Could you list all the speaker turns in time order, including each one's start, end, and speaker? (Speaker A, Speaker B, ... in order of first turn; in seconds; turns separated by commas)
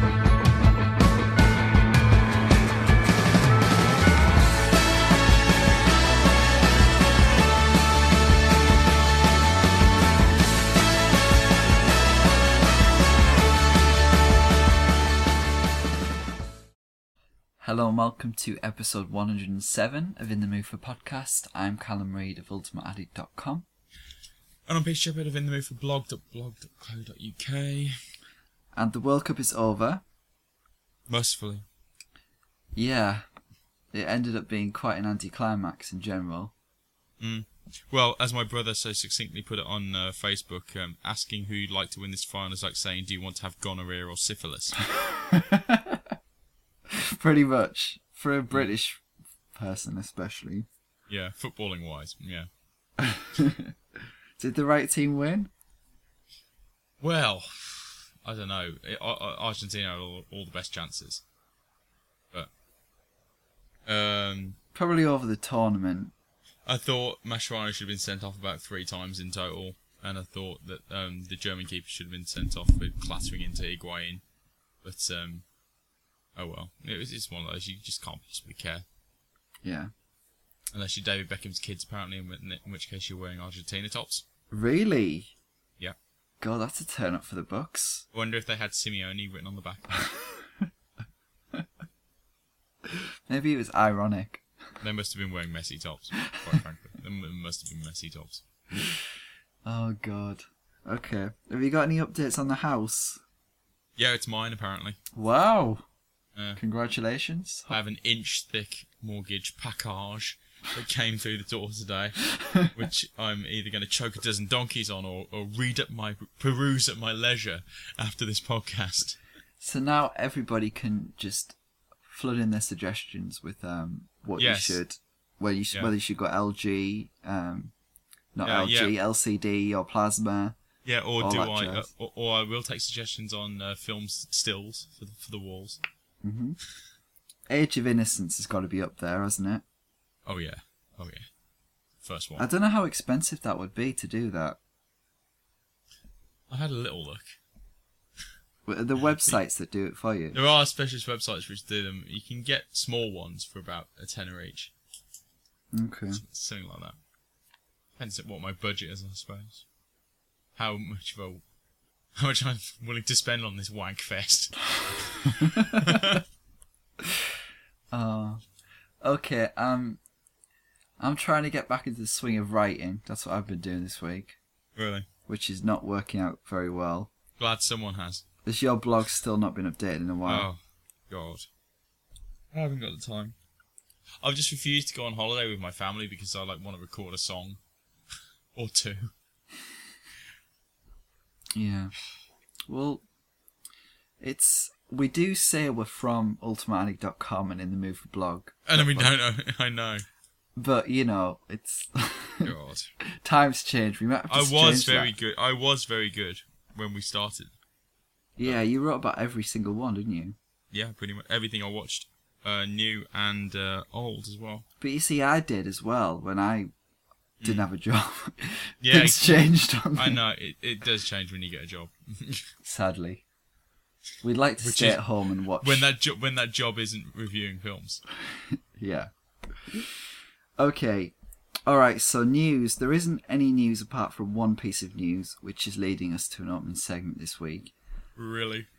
Speaker A: 17.6-23.6, Speaker B: 24.7-27.9, Speaker A: 28.7-30.0, Speaker B: 31.1-31.6, Speaker A: 32.7-33.2, Speaker A: 33.9-36.5, Speaker B: 37.2-44.8, Speaker A: 44.9-46.1, Speaker A: 46.9-50.7, Speaker B: 51.1-52.5, Speaker A: 53.0-53.7, Speaker A: 54.4-55.5, Speaker B: 57.0-61.2, Speaker B: 63.9-64.6, Speaker A: 64.7-66.1, Speaker B: 66.7-74.2, Speaker B: 74.8-75.4, Speaker B: 76.3-78.8, Speaker A: 79.6-79.9, Speaker B: 80.7-84.2, Speaker A: 84.5-85.3, Speaker A: 86.4-88.0, Speaker B: 88.1-90.0, Speaker A: 90.1-90.7, Speaker A: 92.8-94.4, Speaker B: 94.8-98.4, Speaker A: 99.6-103.2, Speaker B: 104.0-105.0, Speaker A: 105.1-105.8, Speaker A: 106.6-107.7, Speaker B: 107.7-119.2, Speaker A: 112.4-112.7, Speaker A: 119.6-121.5, Speaker A: 122.1-127.7, Speaker B: 124.4-124.8, Speaker A: 128.3-130.6, Speaker B: 128.4-128.9, Speaker B: 130.8-135.8, Speaker A: 131.2-131.9, Speaker A: 136.2-136.6, Speaker A: 137.5-139.6, Speaker B: 140.2-141.2, Speaker B: 142.0-142.4, Speaker A: 142.4-144.6, Speaker B: 146.5-147.4, Speaker A: 148.7-150.4, Speaker B: 149.0-149.4, Speaker B: 150.3-154.7, Speaker A: 155.7-156.2, Speaker B: 156.1-157.0, Speaker B: 158.0-159.6, Speaker B: 160.6-161.4, Speaker B: 162.2-166.2, Speaker A: 165.2-166.2, Speaker A: 167.9-168.4, Speaker A: 169.0-170.0, Speaker A: 171.0-174.4, Speaker B: 174.8-175.1, Speaker A: 175.3-177.1, Speaker B: 177.4-178.2, Speaker A: 178.4-180.5, Speaker B: 180.2-181.5, Speaker B: 182.5-183.3, Speaker B: 184.2-187.6, Speaker B: 188.5-189.1, Speaker A: 191.5-191.9, Speaker A: 192.7-193.0, Speaker A: 194.2-199.1, Speaker B: 198.7-200.0, Speaker A: 200.6-202.5, Speaker B: 202.4-202.9, Speaker A: 203.1-205.1, Speaker B: 204.3-207.5, Speaker A: 208.4-210.3, Speaker B: 210.7-214.6, Speaker A: 214.8-216.7, Speaker B: 217.4-217.7, Speaker A: 217.4-220.2, Speaker B: 218.8-222.5, Speaker A: 222.6-223.2, Speaker A: 224.2-225.9, Speaker B: 224.6-225.0, Speaker B: 225.6-228.0, Speaker A: 228.3-229.1, Speaker A: 229.6-230.0, Speaker A: 230.6-231.1, Speaker A: 231.7-237.7, Speaker B: 238.2-238.7